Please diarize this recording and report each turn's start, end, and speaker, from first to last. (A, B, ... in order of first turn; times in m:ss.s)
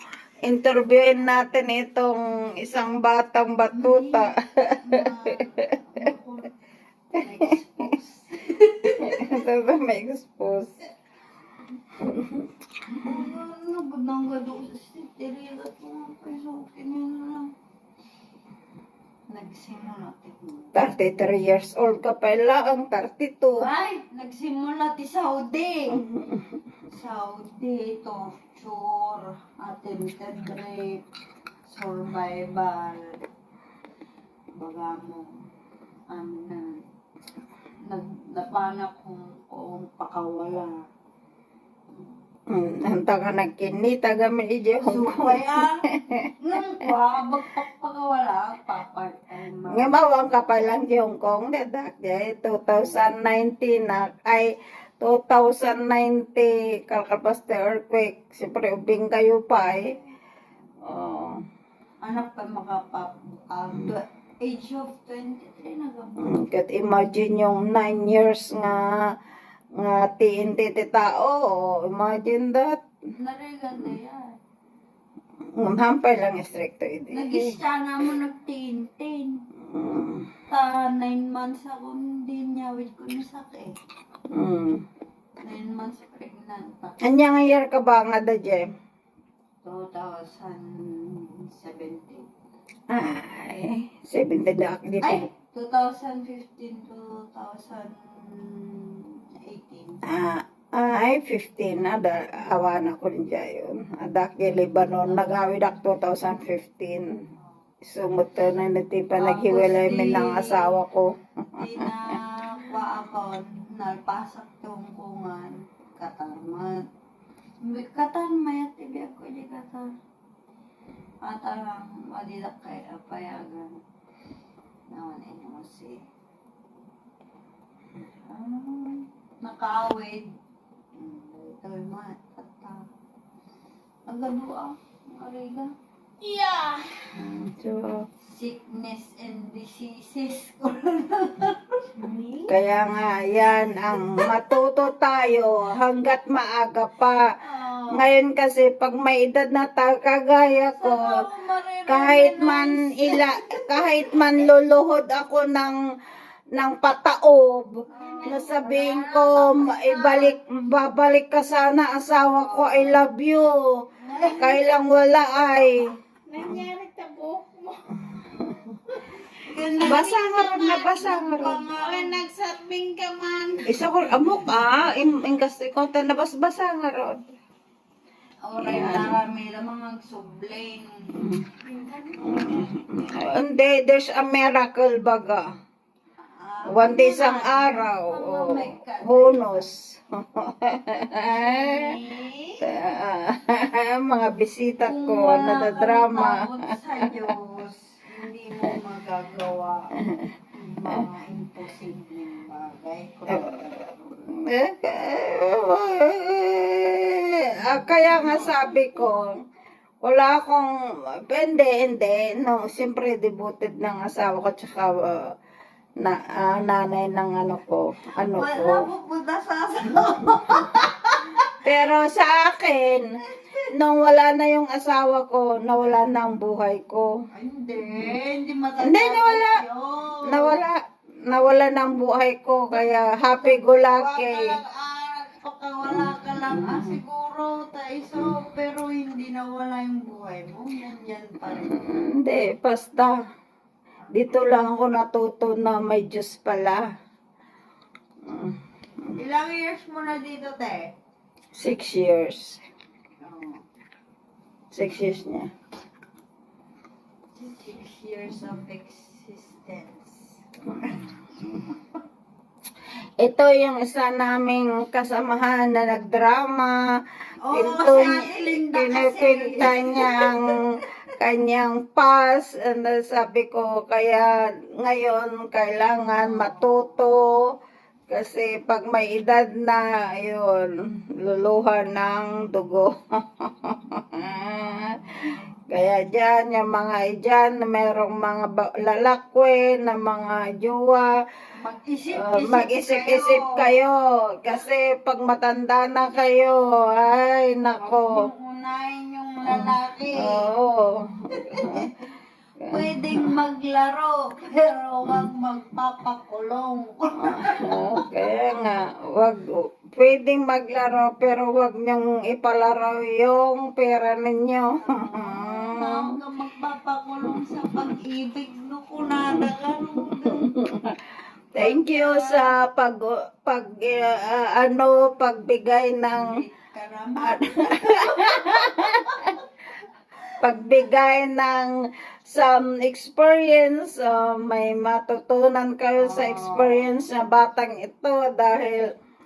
0:00.4-0:05.7 A
0:03.7-0:06.5 B
0:07.1-0:09.1 B
0:08.9-0:10.8 A
0:12.0-0:12.5 A
0:12.9-0:17.5 B
0:19.3-0:20.7 B
0:20.7-0:23.6 A
0:23.6-0:26.0 B
0:25.9-0:26.4 A
0:26.9-0:31.0 B
0:31.6-0:33.2 B
0:34.5-0:35.3 B
0:36.1-0:36.8 B
0:37.8-0:40.8 B
0:42.5-0:46.3 A
0:44.8-0:45.8 B
0:46.4-0:50.4 B
0:49.7-0:59.9 A
0:59.7-1:00.0 B
1:00.8-1:01.4 A
1:02.0-1:06.4 B
1:06.2-1:09.2 A
1:09.8-1:12.8 A
1:13.2-1:14.3 B
1:15.6-1:17.6 A
1:17.1-1:19.4 B
1:19.7-1:20.3 A
1:20.5-1:23.7 B
1:24.3-1:24.8 A
1:25.4-1:27.1 B
1:27.0-1:28.7 A
1:29.6-1:32.3 B
1:32.9-1:35.3 A
1:35.0-1:40.1 B
1:40.1-1:47.2 A
1:45.0-1:45.4 B
1:47.8-1:52.0 A
1:49.1-1:50.8 B
1:51.5-1:56.9 B
1:57.6-1:59.9 B
2:01.2-2:03.8 B
2:04.9-2:06.0 B
2:08.3-2:10.3 B
2:10.9-2:12.8 B
2:14.1-2:15.7 B
2:16.2-2:17.0 C
2:17.1-2:18.0 A
2:18.3-2:22.4 B
2:22.4-2:27.3 A
2:27.4-2:28.1 B
2:27.9-2:31.2 A
2:30.7-2:34.3 B
2:31.9-2:35.8 A
2:36.5-2:43.7 A
2:37.9-2:40.3 B
2:42.3-2:43.0 B
2:44.0-2:44.6 B
2:44.2-2:46.7 A
2:46.3-2:47.8 C
2:48.2-2:48.6 A
2:49.4-2:52.2 B
2:49.8-2:51.7 A
2:49.9-2:50.1 C
2:51.7-2:54.4 C
2:53.6-2:57.2 A
2:58.5-3:02.8 B
2:58.6-2:59.2 A
3:01.2-3:01.5 A
3:02.2-3:05.4 A
3:06.4-3:09.6 B
3:06.7-3:11.9 A
3:11.3-3:12.6 B
3:12.6-3:16.4 A
3:14.8-3:19.9 B
3:17.0-3:17.3 A
3:20.5-3:24.0 B
3:23.3-3:23.6 A
3:24.2-3:29.3 A
3:27.6-3:29.0 B
3:30.0-3:35.3 A
3:36.0-3:38.9 A
3:38.3-3:41.5 B
3:41.6-3:43.0 A
3:43.7-3:47.1 A
3:47.4-3:50.7 B
3:48.8-3:49.6 A
3:50.3-3:54.6 A
3:52.7-4:01.9 B
3:55.9-3:57.0 A
4:01.4-4:03.2 A
4:04.1-4:06.9 A
4:08.2-4:08.6 A
4:09.1-4:10.9 B
4:11.5-4:12.6 A
4:13.2-4:13.6 B
4:14.7-4:15.5 A
4:17.4-4:21.8 B
4:23.2-4:26.8 A
4:27.4-4:30.6 B
4:27.5-4:30.6 A
4:31.2-4:37.4 A
4:36.2-4:36.8 B
4:38.1-4:51.1 A
4:51.6-4:53.7 B
4:52.1-4:58.3 A
4:57.8-5:00.5 B
4:59.5-5:01.9 A
5:01.4-5:01.9 B
5:02.6-5:03.3 A
5:02.7-5:08.0 B
5:07.2-5:16.0 A
5:14.8-5:20.5 B
5:17.2-5:17.9 A
5:19.0-5:19.5 A
5:20.2-5:21.0 A
5:21.5-5:26.3 A
5:21.5-5:22.5 B
5:26.1-5:29.4 B
5:27.2-5:29.4 A
5:30.4-5:31.7 A
5:32.2-5:38.8 A
5:36.0-5:36.9 B